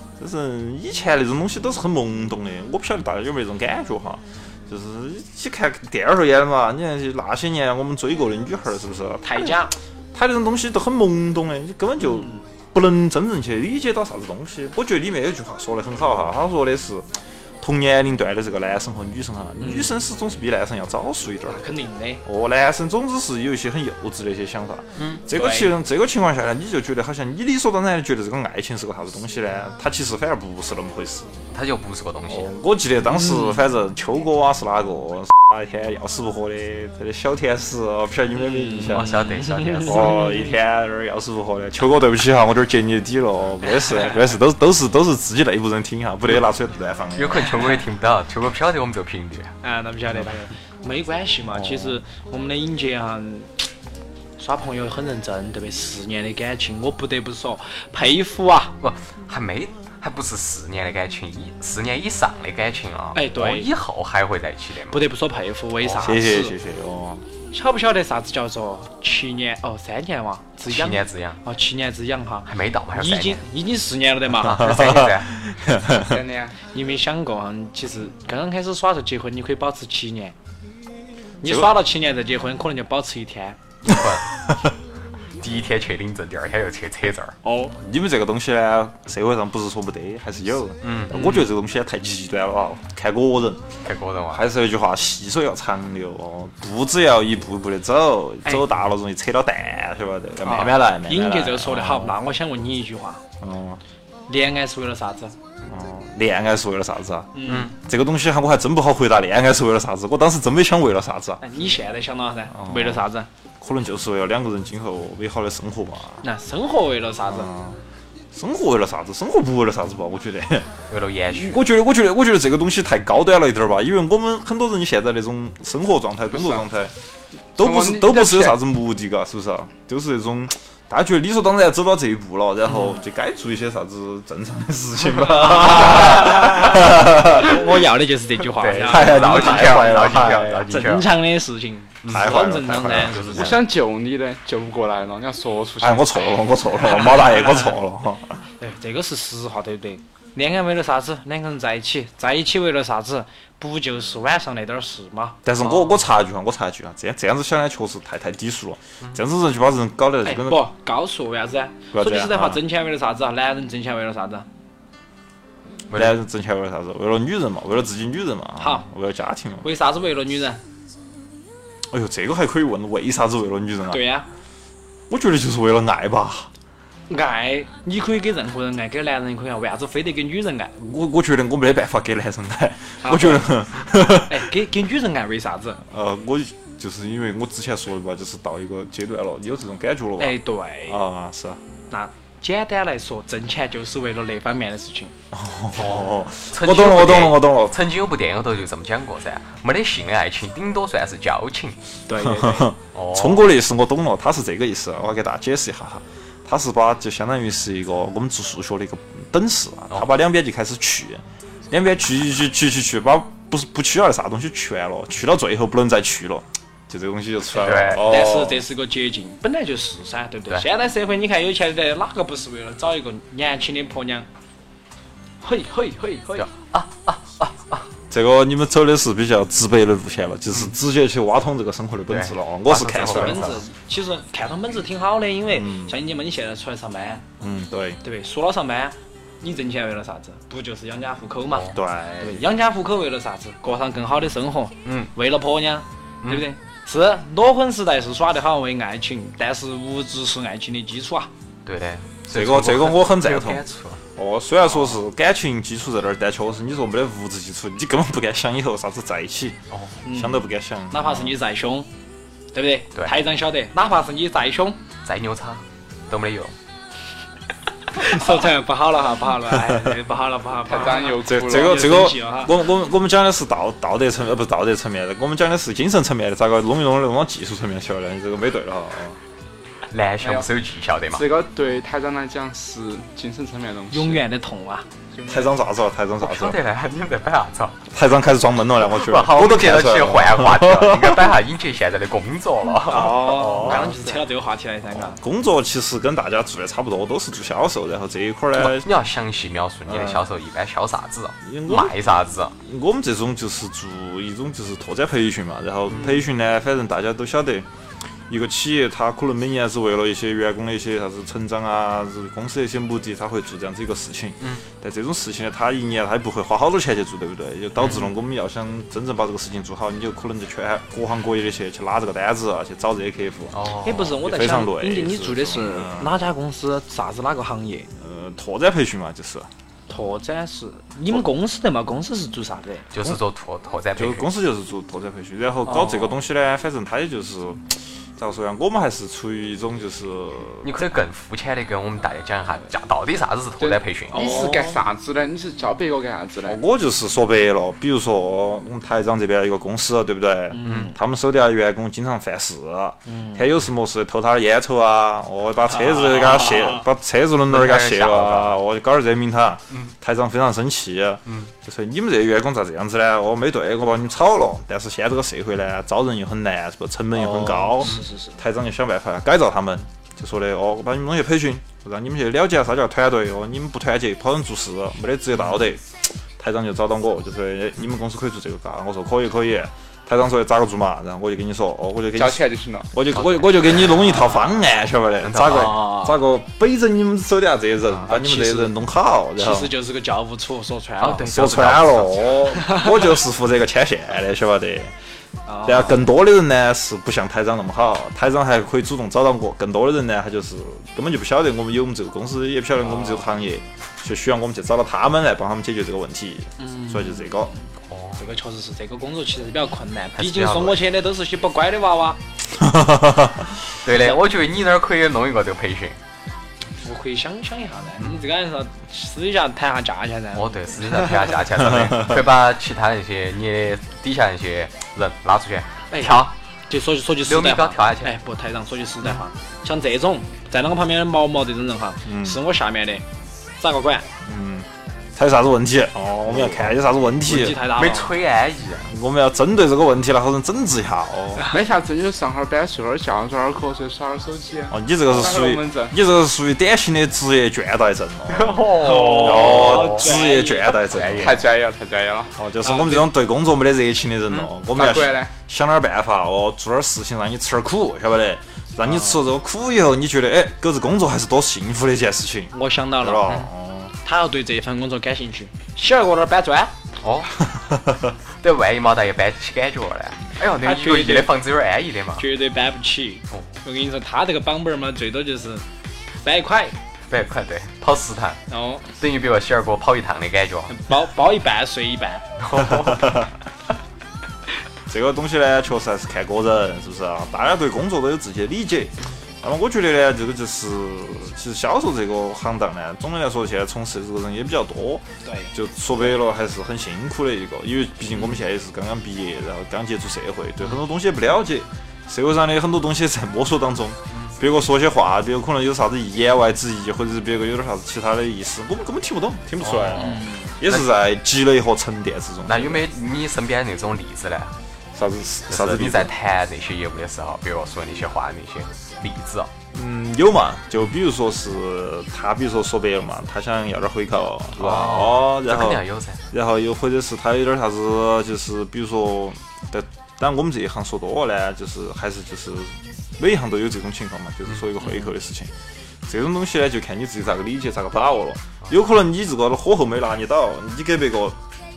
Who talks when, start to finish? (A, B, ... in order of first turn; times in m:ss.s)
0:00.2-0:21.7 A
0:09.2-0:09.7 B
0:12.2-0:12.4 B
0:19.6-0:19.9 B
0:21.4-0:22.2 B
0:22.2-0:31.3 A
0:25.3-0:25.7 B
0:31.5-0:32.5 C
0:32.3-0:39.1 A
0:33.1-0:33.5 B
0:38.4-0:40.3 B
0:38.8-0:40.2 C
0:39.8-0:47.6 A
0:47.1-0:49.5 C
0:49.6-0:53.7 B
0:51.5-0:52.0 A
0:54.4-0:58.7 B
0:58.8-1:05.1 C
1:03.1-1:03.7 B
1:04.9-1:06.6 B
1:05.8-1:07.2 A
1:07.5-1:15.0 B
1:10.7-1:11.4 C
1:12.4-1:13.4 C
1:14.4-1:15.3 C
1:14.6-1:16.1 A
1:15.7-1:16.6 D
1:16.7-1:20.3 B
1:21.4-1:21.7 A
1:21.4-1:23.6 B
1:23.8-1:24.3 C
1:25.4-1:27.4 C
1:27.4-1:27.7 B
1:27.7-1:33.6 A
1:30.8-1:31.3 C
1:31.1-1:31.4 B
1:33.8-1:34.4 C
1:34.3-1:42.2 A
1:40.4-1:43.2 B
1:43.4-1:43.8 A
1:44.3-1:45.4 B
1:45.7-1:51.4 A
1:47.3-1:47.7 B
1:47.4-1:47.7 C
1:51.4-1:53.3 B
1:52.5-1:53.0 A
1:53.6-1:56.2 A
1:56.2-1:57.5 B
1:57.3-1:57.8 A
1:58.3-2:00.8 A
2:00.9-2:01.6 C
2:01.3-2:06.9 A
2:07.6-2:17.6 A
2:07.6-2:08.5 D
2:15.2-2:23.5 B
2:15.8-2:16.1 C
2:18.6-2:21.1 C
2:18.8-2:20.7 A
2:22.0-2:22.4 C
2:22.1-2:23.6 A
2:22.9-2:23.5 C
2:23.4-2:26.3 D
2:25.8-2:28.4 A
2:28.6-2:35.4 B
2:35.4-2:40.7 A
2:35.6-2:35.9 C
2:40.2-2:44.5 B
2:41.9-2:42.6 A
2:45.9-2:46.2 C
2:45.9-2:49.7 A
2:48.6-2:48.8 B
2:49.6-2:50.6 B
2:51.9-2:54.0 A
2:53.9-2:54.3 B
2:55.1-2:56.5 A
2:57.1-3:00.7 B
3:00.8-3:04.4 A
3:03.0-3:03.6 B
3:04.1-3:05.8 B
3:05.9-3:11.6 A
3:10.2-3:11.0 B
3:11.9-3:15.1 B
3:15.3-3:17.8 A
3:15.8-3:21.8 C
3:22.1-3:22.7 B
3:22.2-3:38.6 A
3:22.9-3:23.4 C
3:37.5-3:38.1 C
3:38.0-3:44.3 B
3:45.4-3:46.5 B
3:46.4-3:47.9 C
3:48.1-3:53.6 A
3:52.1-3:53.5 C
3:53.0-3:57.2 B
3:55.5-3:55.9 A
3:57.4-3:58.0 A
3:58.0-4:11.3 B
4:01.7-4:02.4 A
4:04.8-4:05.1 C
4:06.2-4:06.5 C
4:11.6-4:14.0 C
4:12.3-4:13.6 A
4:14.2-4:21.4 A
4:20.0-4:21.9 B
4:22.5-4:24.8 B
4:25.0-4:26.5 C
4:27.9-4:32.6 B
4:30.7-4:32.1 D
4:31.2-4:39.2 A
4:39.9-4:41.3 C
4:40.2-4:40.5 D
4:41.1-4:44.2 D
4:43.9-4:44.8 B
4:45.2-4:45.4 D
4:45.3-4:46.6 A
4:46.2-4:47.8 C
4:47.9-4:51.4 A
4:48.9-4:53.9 C
4:52.8-4:55.2 B
4:52.9-4:53.9 A
4:54.9-4:58.9 A
4:58.6-5:02.5 C
4:59.9-5:00.2 A
5:01.4-5:02.0 A
5:02.6-5:07.7 A
5:05.9-5:06.2 C
5:08.3-5:26.2 A
5:17.8-5:18.1 C
5:23.5-5:24.1 C
5:23.8-5:27.9 B
5:28.0-5:29.5 A
5:29.9-5:32.9 B
5:32.9-5:34.3 C
5:34.0-5:40.8 A
5:35.7-5:36.1 B
5:40.6-5:44.4 C
5:43.6-5:46.6 D
5:44.1-5:44.8 B
5:46.4-6:29.7 A
5:50.5-5:51.0 B
5:50.6-5:50.9 C
5:53.0-5:53.4 B
5:55.7-5:56.4 B
5:57.5-5:58.6 C
6:07.1-6:08.3 B
6:22.1-6:22.9 D
6:23.1-6:24.3 C
6:24.0-6:24.4 B
6:25.2-6:25.9 C
6:25.5-6:26.1 B
6:27.9-6:28.7 B
6:29.4-6:31.4 B
6:31.0-6:32.4 C
6:31.2-6:34.9 A
6:32.5-6:32.9 B
6:35.4-6:36.0 B
6:35.6-6:47.5 A
6:42.8-6:43.3 B
6:46.6-6:47.6 B
6:47.9-6:48.2 C
6:48.2-6:52.2 B
6:50.2-6:50.8 C
6:52.6-6:53.4 A
6:53.8-6:56.0 C
6:56.8-7:01.3 B
7:00.3-7:06.3 C
7:01.6-7:02.2 A
7:05.9-7:13.0 B
7:07.2-7:08.2 C
7:12.0-7:12.4 A
7:13.6-7:14.0 B
7:14.2-7:17.6 A
7:16.3-7:16.7 B
7:17.2-7:18.1 B
7:17.7-7:18.9 C
7:18.9-7:21.4 A
7:21.5-7:26.0 D
7:24.7-7:31.4 A
7:28.3-7:30.2 C
7:28.8-7:30.8 B
7:30.9-7:31.4 C
7:31.2-7:32.3 D
7:32.4-7:43.9 A
7:32.6-7:33.1 B
7:34.7-7:35.3 D
7:38.8-7:39.2 B
7:42.5-7:43.4 B
7:44.0-7:46.7 B
7:47.0-7:47.4 C
7:48.4-7:52.2 C
7:50.6-7:51.3 B
7:52.2-7:55.6 B
7:56.2-7:56.8 B
7:57.1-8:00.8 C
7:58.5-7:58.8 B
8:00.7-8:02.3 B
8:02.4-8:03.2 C
8:02.6-8:03.3 A
8:04.9-8:32.9 A
8:15.2-8:16.1 B
8:29.6-8:30.8 C
8:29.9-8:30.6 B
8:32.4-8:34.6 C
8:34.9-8:36.1 A
8:35.5-8:39.5 C
8:39.7-8:55.5 A
8:44.6-8:46.2 C
8:54.5-8:54.9 C
8:56.0-9:01.4 A